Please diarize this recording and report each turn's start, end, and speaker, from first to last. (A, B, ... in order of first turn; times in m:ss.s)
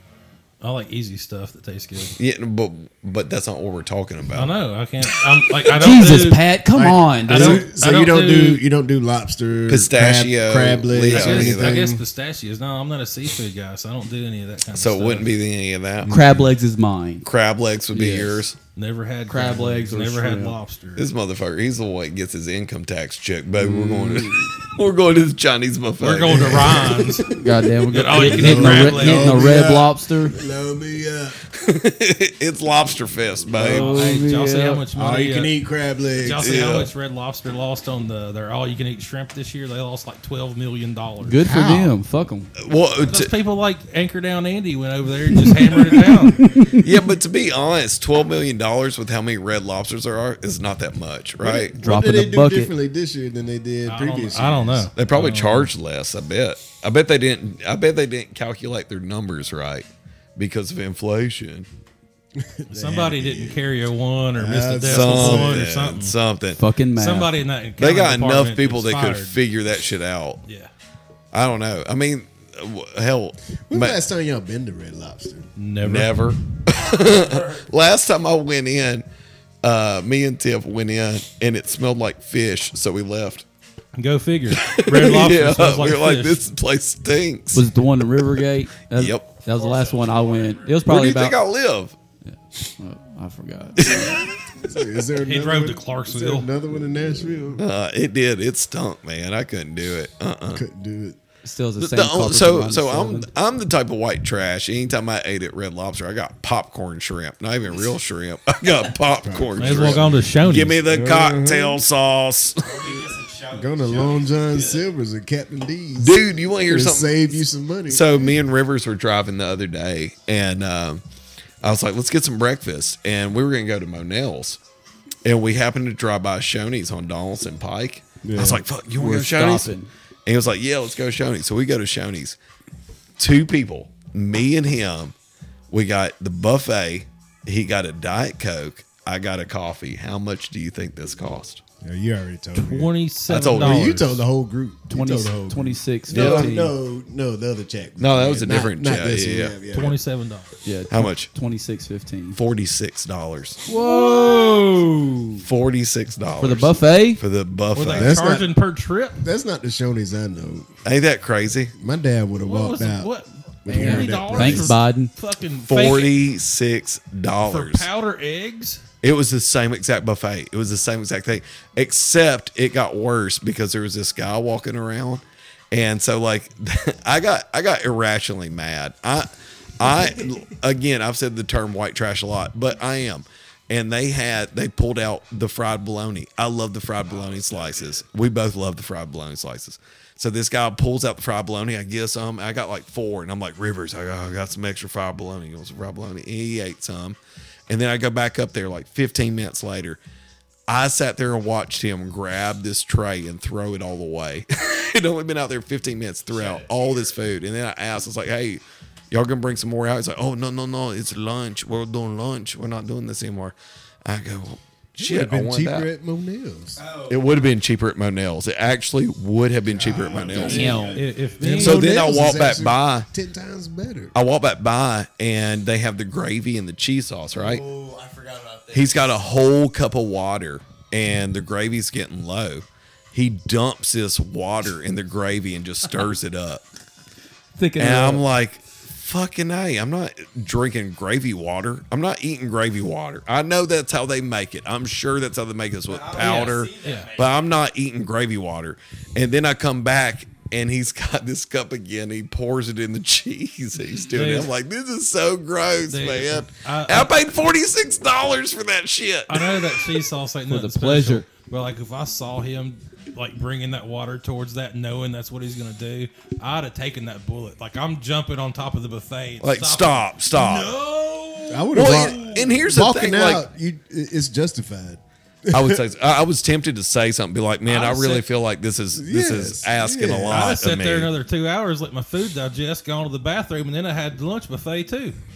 0:00.6-0:02.2 A
0:02.2-0:04.5 B
0:04.3-0:06.4 A
0:05.8-0:07.7 C
0:06.7-0:12.0 D
0:07.3-0:08.6 A
0:09.7-0:11.8 B
0:11.0-0:15.4 A
0:14.7-0:16.2 B
0:16.1-0:16.4 D
0:16.1-0:17.3 C
0:17.2-0:18.6 B
0:17.9-0:18.5 C
0:18.7-0:21.1 A
0:19.3-0:20.6 C
0:21.0-0:27.5 B
0:23.6-0:24.5 D
0:26.0-0:27.3 A
0:26.3-0:27.2 D
0:27.3-0:30.4 C
0:27.9-0:29.5 A
0:28.1-0:31.4 D
0:31.5-0:33.9 B
0:33.5-0:33.9 D
0:33.6-0:35.5 A
0:33.6-0:34.8 C
0:34.9-0:36.6 D
0:36.2-0:41.4 A
0:36.3-0:36.9 B
0:41.2-0:42.5 C
0:41.4-0:42.0 D
0:42.6-0:43.3 B
0:43.0-0:46.4 A
0:45.4-0:47.1 C
0:46.7-0:51.8 B
0:51.4-0:54.9 D
0:51.8-0:52.7 C
0:53.8-0:55.7 A
0:55.0-1:01.7 B
1:02.4-1:03.6 D
1:02.7-1:06.2 A
1:04.4-1:05.7 D
1:04.8-1:06.6 B
1:06.5-1:07.3 C
1:07.0-1:09.4 A
1:07.8-1:10.4 B
1:10.4-1:10.7 A
1:11.3-1:14.0 B
1:13.7-1:15.5 D
1:15.6-1:16.3 A
1:15.8-1:19.0 B
1:19.6-1:23.4 B
1:23.9-1:26.4 A
1:24.5-1:29.3 B
1:27.5-1:31.4 C
1:29.5-1:30.9 E
1:30.8-1:32.0 B
1:32.2-1:34.2 C
1:33.8-1:34.3 B
1:34.6-1:37.6 D
1:35.2-1:36.5 A
1:37.6-1:40.6 B
1:40.5-1:41.2 D
1:41.4-1:43.3 C
1:41.8-1:53.0 B
1:49.2-1:50.3 D
1:49.6-1:50.8 A
1:50.8-1:51.8 D
1:52.6-1:54.9 E
1:53.5-1:58.4 D
1:56.0-2:01.0 B
2:01.6-2:04.6 B
2:05.2-2:09.7 B
2:08.2-2:08.6 D
2:08.9-2:09.9 C
2:10.2-2:12.4 B
2:13.2-2:15.1 B
2:15.7-2:21.6 B
2:21.8-2:22.9 D
2:22.5-2:24.2 A
2:23.3-2:23.9 B
2:23.5-2:30.0 D
2:24.9-2:26.7 C
2:26.1-2:26.5 B
2:28.0-2:29.6 B
2:29.7-2:30.5 A
2:30.6-2:32.4 C
2:30.9-2:31.3 B
2:32.3-2:33.6 B
2:33.7-2:35.4 D
2:33.7-2:34.6 C
2:35.4-2:38.3 B
2:36.4-2:37.2 C
2:37.7-2:39.2 A
2:37.9-2:38.5 D
2:39.2-2:40.7 D
2:40.8-2:41.7 B
2:41.8-2:43.1 D
2:42.4-2:46.2 A
2:43.6-2:44.8 D
2:43.7-2:45.1 C
2:45.7-2:47.9 B
2:47.4-2:48.8 A
2:49.0-3:20.0 B
3:07.1-3:08.0 E
3:20.7-3:35.9 B
3:26.3-3:27.2 E
3:35.0-3:36.8 D
3:36.8-3:37.5 E
3:37.1-3:40.7 B
3:39.7-3:40.7 D
3:39.9-3:41.3 E
3:40.3-3:42.0 A
3:40.4-3:41.0 C
3:41.4-3:44.1 D
3:41.6-3:43.1 B
3:44.1-3:47.6 B
3:47.3-3:49.4 E
3:48.7-3:56.6 B
3:57.6-3:58.2 C
3:57.8-4:20.0 B
4:05.9-4:07.5 E
4:06.2-4:07.1 A
4:14.1-4:14.5 A
4:15.9-4:17.1 A
4:19.3-4:32.6 A
4:20.5-4:21.2 C
4:29.4-4:30.8 B
4:31.5-4:35.8 D
4:31.7-4:33.5 B
4:35.5-4:41.1 B
4:37.6-4:38.3 A
4:38.9-4:40.5 D
4:40.3-4:45.2 A